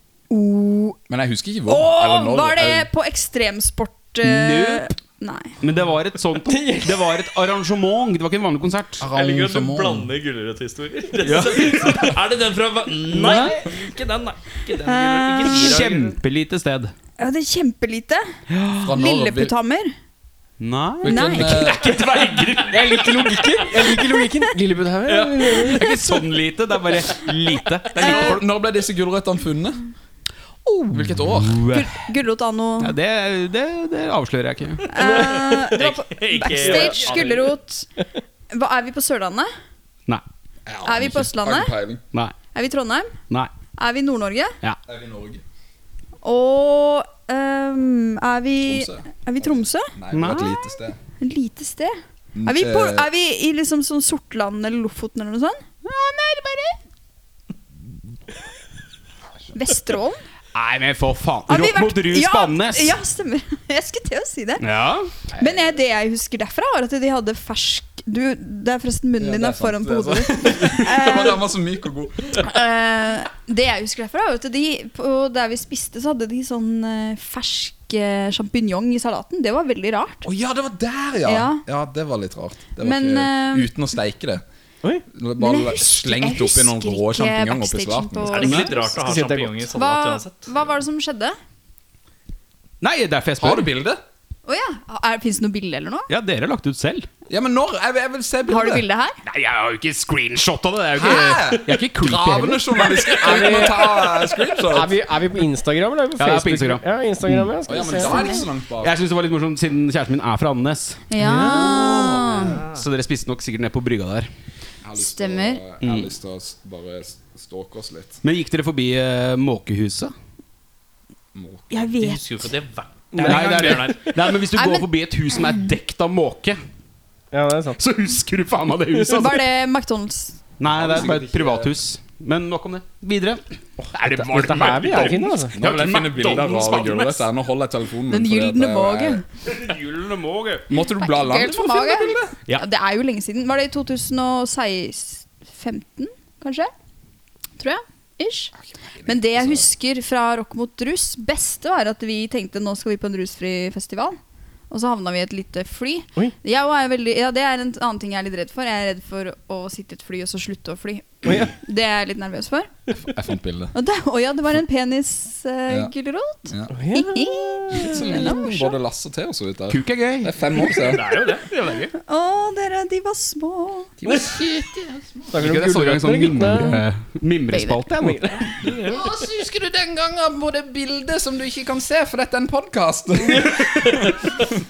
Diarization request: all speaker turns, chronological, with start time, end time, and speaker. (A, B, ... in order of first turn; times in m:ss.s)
0:00.3-0:01.0 A
0:01.1-0:02.9 B
0:01.6-0:05.6 A
0:04.2-0:04.9 C
0:05.6-0:09.1 C
0:06.5-0:07.1 D
0:09.0-0:10.1 B
0:09.1-0:16.2 E
0:11.2-0:11.9 C
0:11.2-0:12.1 B
0:13.1-0:13.7 C
0:14.8-0:15.8 A
0:15.4-0:16.9 C
0:17.2-0:18.2 A
0:18.5-0:18.9 C
0:18.8-0:19.5 B
0:18.9-0:19.9 A
0:20.6-0:23.1 C
0:21.0-0:21.7 A
0:21.0-0:21.9 B
0:22.4-0:22.6 E
0:22.7-0:25.8 D
0:25.1-0:28.4 C
0:28.0-0:29.8 B
0:28.0-0:28.4 A
0:30.6-0:32.0 C
0:30.9-0:31.6 B
0:31.7-0:33.0 A
0:32.8-0:34.9 C
0:34.9-0:37.9 A
0:35.0-0:35.6 D
0:35.8-0:37.5 E
0:36.6-0:37.1 D
0:38.5-0:39.5 A
0:40.6-0:42.0 B
0:40.8-0:41.7 A
0:42.5-0:43.2 A
0:43.7-0:44.6 A
0:44.8-0:45.4 B
0:46.2-0:49.9 A
0:48.6-0:51.0 B
0:50.1-0:50.6 C
0:51.2-0:55.7 A
0:52.4-0:53.1 B
0:55.8-0:56.8 C
0:59.5-1:00.2 A
1:00.5-1:02.9 C
1:01.5-1:04.6 A
1:04.6-1:05.1 C
1:05.4-1:11.5 A
1:09.2-1:12.4 B
1:12.4-1:20.2 A
1:20.2-1:24.4 B
1:21.2-1:21.6 A
1:22.8-1:23.7 A
1:25.1-1:28.6 B
1:25.4-1:28.9 A
1:28.3-1:30.5 E
1:28.4-1:28.7 C
1:29.0-1:29.7 D
1:29.7-1:31.3 A
1:32.8-1:33.7 C
1:33.4-1:34.0 B
1:34.4-1:36.1 A
1:36.1-1:37.1 C
1:37.3-1:38.8 B
1:38.5-1:39.2 A
1:39.2-1:43.8 C
1:41.0-1:45.0 B
1:43.0-1:48.3 D
1:46.2-1:47.5 C
1:47.7-1:48.9 B
1:47.9-1:48.4 A
1:48.8-1:54.3 C
1:51.1-1:52.6 A
1:51.2-1:52.6 B
1:52.5-1:52.9 E
1:54.8-1:58.2 B
1:55.0-1:55.6 A
1:55.8-1:56.1 C
1:58.2-2:00.1 C
2:01.3-2:01.9 B
2:01.7-2:02.2 A
2:02.0-2:04.1 E
2:03.1-2:04.2 D
2:03.2-2:06.6 C
2:04.5-2:05.6 A
2:07.3-2:07.8 D
2:07.8-2:09.4 C
2:09.1-2:10.4 A
2:10.6-2:16.6 C
2:10.7-2:11.7 B
2:13.8-2:15.6 D
2:15.5-2:19.2 B
2:15.9-2:17.3 E
2:18.1-2:19.2 A
2:19.4-2:20.7 C
2:20.7-2:22.4 B
2:20.9-2:26.7 A
2:27.6-2:28.5 A
2:28.6-2:29.6 B
2:29.0-2:34.2 A
2:34.7-2:42.7 A
2:41.2-2:41.5 D
2:42.9-2:43.7 B
2:43.7-2:48.8 A
2:46.5-2:46.7 B
2:46.7-2:48.3 D
2:47.7-2:51.2 B
2:49.7-2:50.4 C
2:50.7-2:51.9 E
2:52.0-2:53.9 A
2:54.0-2:54.3 D
2:54.0-2:55.3 B
2:55.3-2:56.8 D
2:55.3-2:58.3 C
2:57.5-2:57.8 A
2:57.9-2:58.5 D
2:58.6-2:59.0 E
2:58.8-3:04.1 B
3:03.2-3:04.3 D